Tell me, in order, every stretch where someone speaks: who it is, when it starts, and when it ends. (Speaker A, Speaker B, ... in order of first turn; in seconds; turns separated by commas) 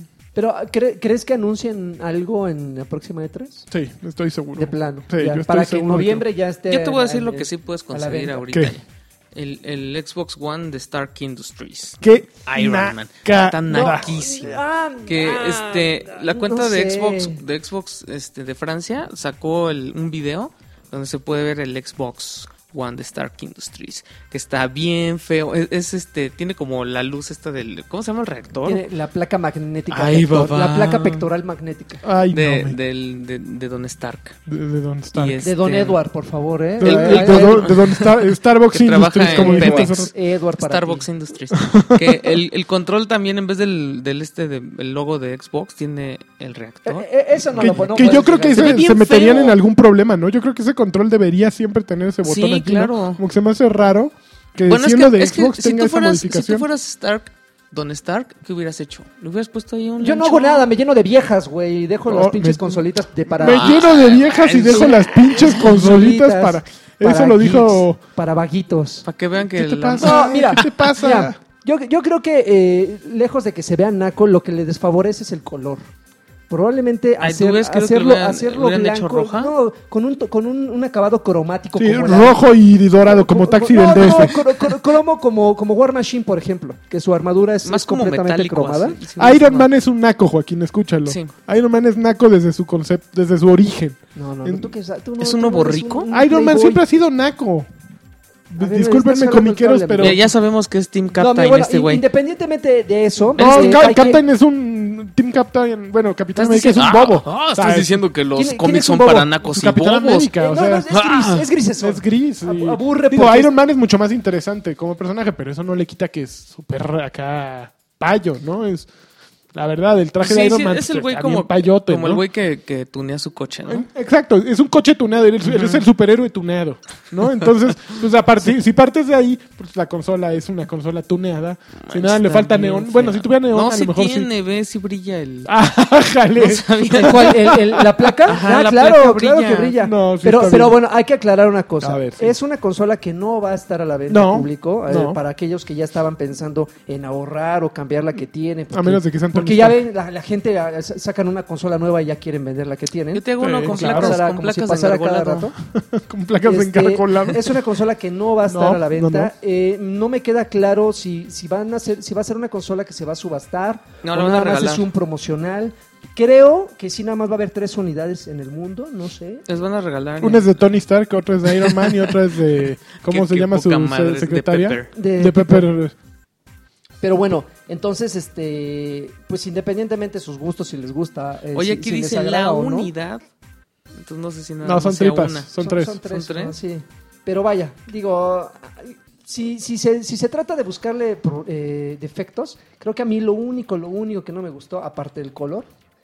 Speaker A: 0.3-3.7, Speaker B: 3.7-6.2, Speaker A: 4.5-8.4, Speaker C: 6.7-28.8, Speaker B: 12.0-14.1, Speaker A: 13.7-17.4, Speaker A: 28.6-32.0, Speaker C: 29.9-31.2, Speaker B: 32.0-32.8, Speaker C: 32.3-34.4, Speaker B: 34.5-35.4, Speaker C: 35.1-36.0, Speaker A: 35.4-37.7, Speaker B: 36.8-40.1, Speaker C: 36.8-49.6, Speaker A: 39.2-41.0, Speaker B: 41.5-42.4, Speaker A: 46.8-48.9, Speaker B: 47.5-56.7, Speaker C: 52.2-53.2, Speaker C: 54.7-60.7, Speaker A: 60.0-63.9, Speaker B: 62.1-68.0, Speaker C: 63.4-65.8, Speaker A: 64.7-69.0, Speaker C: 69.0-70.7, Speaker B: 69.4-71.4, Speaker A: 70.0-75.8, Speaker A: 76.5-82.4, Speaker C: 77.2-79.5, Speaker B: 81.8-84.6, Speaker A: 83.0-89.0, Speaker C: 87.6-89.7, Speaker B: 89.2-94.7, Speaker C: 91.0-91.3, Speaker A: 94.1-96.8, Speaker C: 95.2-96.1, Speaker B: 96.1-97.7, Speaker B: 98.5-100.2, Speaker A: 98.6-100.3, Speaker C: 100.0-102.0, Speaker A: 101.2-104.2, Speaker C: 103.3-103.9, Speaker B: 103.4-108.0, Speaker C: 106.3-110.3, Speaker A: 108.3-109.3, Speaker B: 109.4-110.9, Speaker A: 110.3-113.5, Speaker C: 110.9-111.5, Speaker B: 111.8-118.9, Speaker B: 119.5-122.2, Speaker C: 120.2-123.8, Speaker B: 123.7-134.3, Speaker C: 125.5-125.8, Speaker C: 131.8-135.5, Speaker B: 135.4-138.1, Speaker C: 136.3-137.6, Speaker A: 136.9-155.5, Speaker C: 138.3-139.8, Speaker B: 139.8-140.8, Speaker B: 141.8-142.3, Speaker B: 144.1-145.2, Speaker B: 148.7-149.8, Speaker C: 153.1-155.5, Speaker B: 153.4-154.2, Speaker B: 155.7-157.5, Speaker A: 156.4-169.4, Speaker B: 158.5-159.3, Speaker C: 164.0-164.9, Speaker C: 169.5-170.8, Speaker B: 170.2-175.9, Speaker C: 171.4-172.2, Speaker C: 173.0-174.9, Speaker A: 174.9-175.7, Speaker A: 177.0-182.9, Speaker C: 181.5-183.2, Speaker C: 183.9-186.5, Speaker B: 184.6-186.0, Speaker A: 185.6-195.7